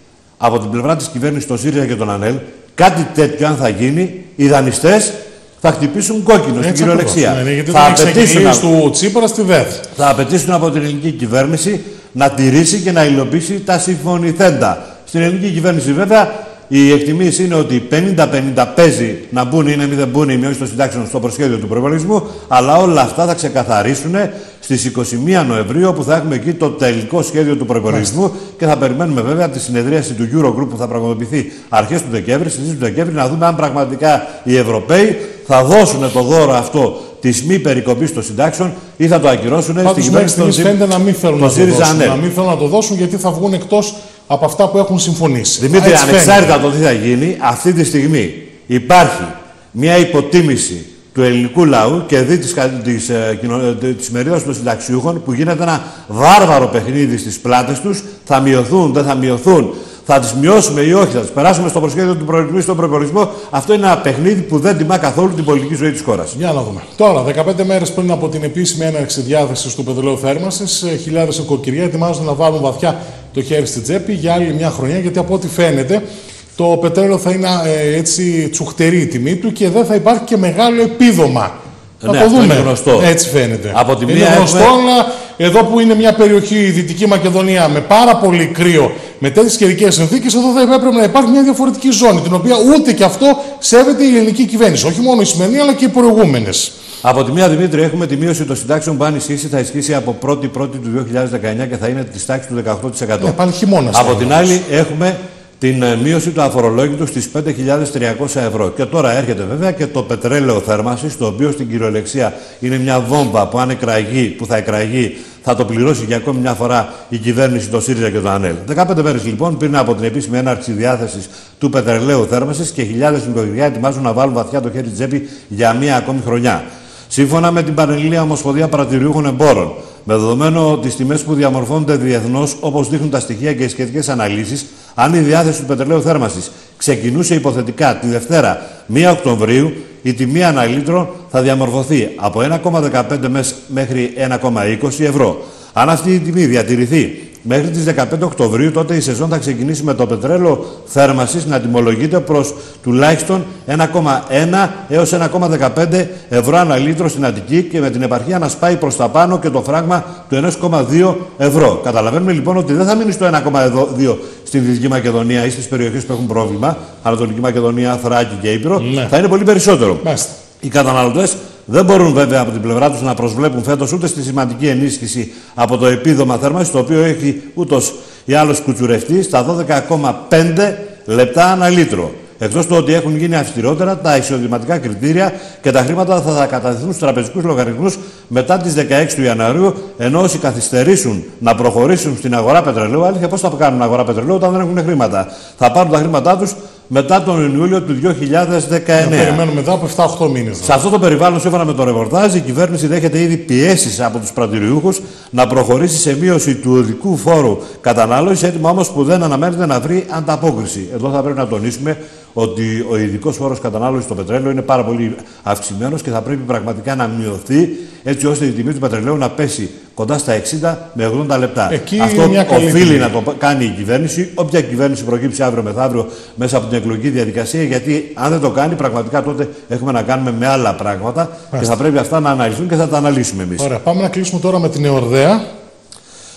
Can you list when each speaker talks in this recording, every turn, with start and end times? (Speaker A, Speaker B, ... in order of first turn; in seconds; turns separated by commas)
Speaker A: 0.4-8.6, Speaker B: 6.6-9.8, Speaker A: 9.9-40.8, Speaker B: 39.8-46.5, Speaker A: 41.4-42.2, Speaker A: 45.6-66.3, Speaker B: 66.3-76.0, Speaker B: 76.5-81.5, Speaker A: 82.0-83.1, Speaker B: 82.0-96.7, Speaker A: 83.7-84.7, Speaker A: 97.0-103.4, Speaker B: 103.2-104.6, Speaker A: 103.9-170.0, Speaker B: 168.8-169.1, Speaker B: 170.0-170.3, Speaker A: 170.6-199.4, Speaker B: 199.0-200.8, Speaker A: 200.6-233.7, Speaker B: 221.7-223.1, Speaker B: 233.6-235.4